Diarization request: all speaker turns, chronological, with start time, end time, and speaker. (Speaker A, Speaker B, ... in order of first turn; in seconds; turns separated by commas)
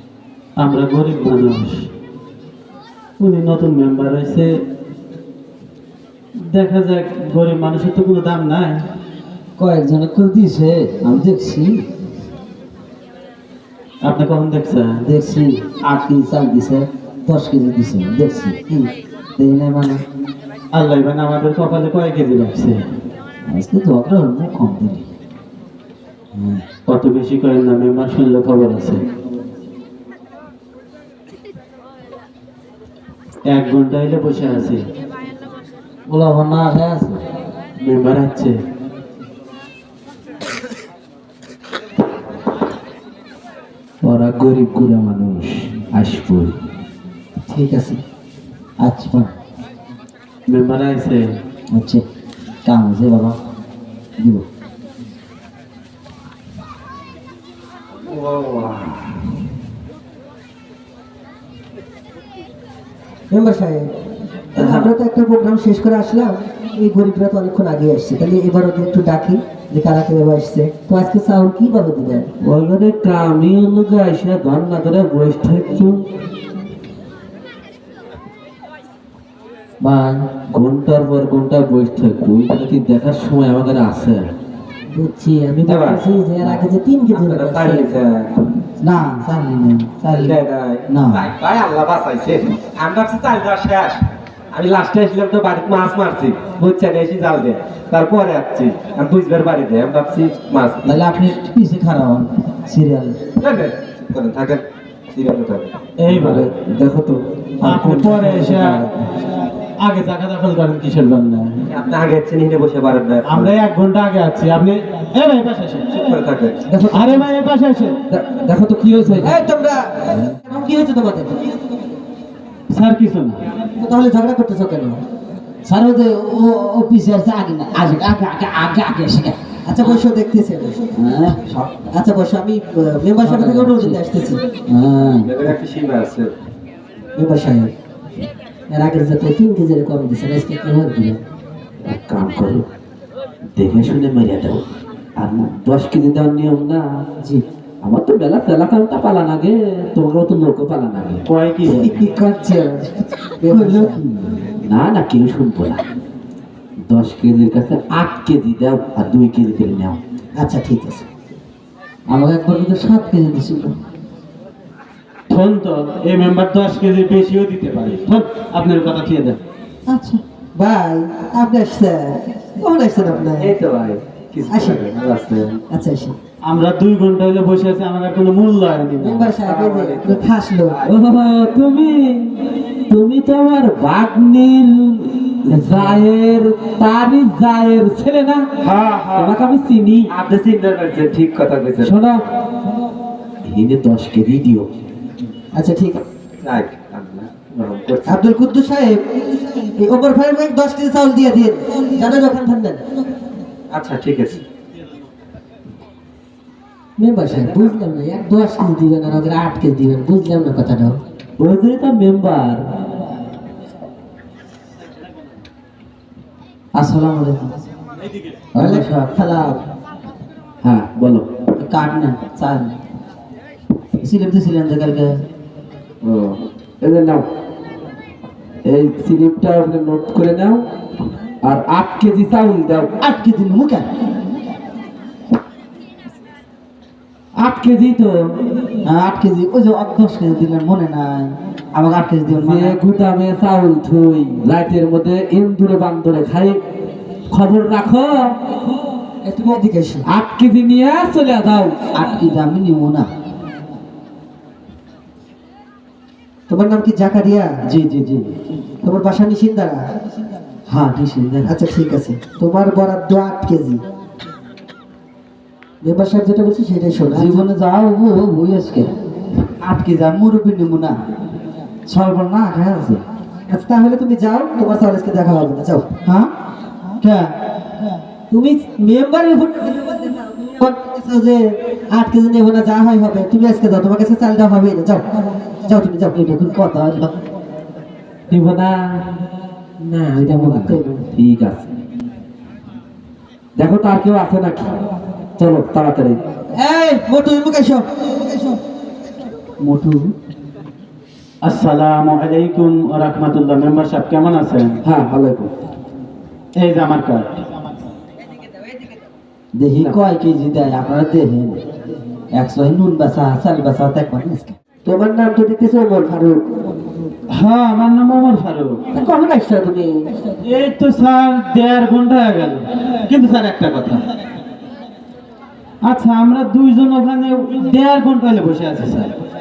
Speaker A: 0.6-1.9, Speaker A: 3.2-4.5, Speaker A: 6.5-8.8, Speaker B: 9.6-11.8, Speaker A: 14.0-15.0, Speaker B: 15.0-20.0, Speaker A: 20.7-22.8, Speaker B: 23.5-25.1, Speaker B: 26.4-26.6, Speaker A: 26.9-29.0, Speaker A: 33.5-34.9, Speaker B: 36.1-37.2, Speaker A: 37.8-38.6, Speaker C: 44.0-46.6, Speaker D: 47.5-48.0, Speaker B: 48.8-49.3, Speaker A: 50.5-51.3, Speaker B: 51.7-52.0, Speaker B: 52.7-53.4, Speaker B: 54.2-54.5, Speaker C: 58.1-59.1, Speaker D: 63.3-63.9, Speaker C: 64.6-64.9, Speaker D: 64.6-72.3, Speaker C: 72.4-76.0, Speaker B: 79.8-80.3, Speaker C: 80.5-84.3, Speaker D: 84.9-87.9, Speaker E: 85.6-86.0, Speaker E: 87.1-88.3, Speaker B: 88.8-91.3, Speaker E: 90.1-101.0, Speaker B: 100.8-103.2, Speaker E: 103.4-105.7, Speaker A: 106.0-106.5, Speaker C: 106.1-108.9, Speaker A: 107.6-108.9, Speaker A: 109.8-111.6, Speaker E: 111.7-113.5, Speaker A: 113.2-116.0, Speaker E: 115.9-116.9, Speaker A: 116.9-118.0, Speaker C: 118.1-119.4, Speaker D: 119.2-121.5, Speaker A: 122.7-123.4, Speaker D: 123.8-125.0, Speaker B: 125.7-129.9, Speaker D: 129.7-130.8, Speaker B: 130.9-131.7, Speaker D: 131.9-134.4, Speaker B: 133.2-134.0, Speaker B: 134.7-135.5, Speaker E: 135.2-136.3, Speaker D: 137.2-137.7, Speaker D: 138.7-141.2, Speaker C: 141.8-142.7, Speaker C: 143.6-144.6, Speaker C: 145.2-146.9, Speaker C: 147.8-151.2, Speaker A: 151.3-151.9, Speaker D: 151.7-154.0, Speaker B: 153.5-154.4, Speaker C: 154.6-155.8, Speaker C: 156.9-160.0, Speaker D: 160.4-161.1, Speaker B: 162.1-163.8, Speaker A: 165.3-169.4, Speaker B: 169.9-170.2, Speaker D: 170.6-173.5, Speaker E: 173.0-175.6, Speaker D: 174.5-174.8, Speaker D: 175.7-176.2, Speaker A: 176.4-179.4, Speaker D: 179.0-180.8, Speaker E: 179.3-180.9, Speaker C: 180.8-188.5, Speaker E: 188.6-189.4, Speaker C: 189.2-190.1, Speaker E: 190.1-191.9, Speaker C: 191.8-192.2, Speaker C: 193.5-194.7, Speaker D: 195.6-196.0, Speaker E: 196.4-198.2, Speaker D: 198.1-199.0, Speaker D: 199.6-202.8, Speaker E: 203.7-204.4, Speaker D: 207.0-211.0, Speaker C: 211.4-212.6, Speaker B: 216.8-217.6, Speaker B: 218.5-219.2, Speaker D: 218.6-219.6, Speaker C: 220.6-221.3, Speaker B: 221.6-222.8, Speaker B: 224.0-225.2, Speaker C: 226.0-227.2, Speaker C: 228.7-230.7, Speaker C: 231.4-232.9, Speaker B: 233.0-233.9, Speaker C: 237.4-238.4, Speaker B: 238.8-242.8, Speaker C: 242.4-246.6, Speaker C: 247.3-248.3, Speaker D: 249.2-250.1, Speaker C: 250.1-251.8, Speaker B: 251.9-253.1, Speaker D: 256.5-257.5, Speaker B: 257.7-258.3, Speaker D: 258.8-259.8, Speaker B: 260.7-261.5, Speaker D: 261.5-263.8, Speaker D: 265.8-267.4, Speaker B: 267.1-268.9, Speaker B: 269.6-271.0, Speaker B: 271.9-273.0, Speaker D: 273.5-275.9, Speaker B: 276.0-276.3, Speaker B: 277.0-277.3, Speaker D: 278.3-285.0, Speaker D: 285.6-286.1, Speaker B: 286.1-287.1, Speaker C: 288.3-289.1, Speaker D: 289.8-291.0, Speaker C: 290.2-291.7, Speaker C: 293.6-294.7, Speaker C: 295.4-296.2, Speaker D: 296.5-297.9, Speaker B: 299.6-300.1, Speaker A: 301.4-304.8, Speaker C: 304.8-305.5, Speaker A: 306.6-307.4, Speaker B: 309.6-311.6, Speaker B: 312.3-314.6, Speaker D: 314.9-316.4, Speaker A: 317.3-318.8, Speaker D: 318.9-320.1, Speaker A: 320.4-324.0, Speaker A: 325.9-329.1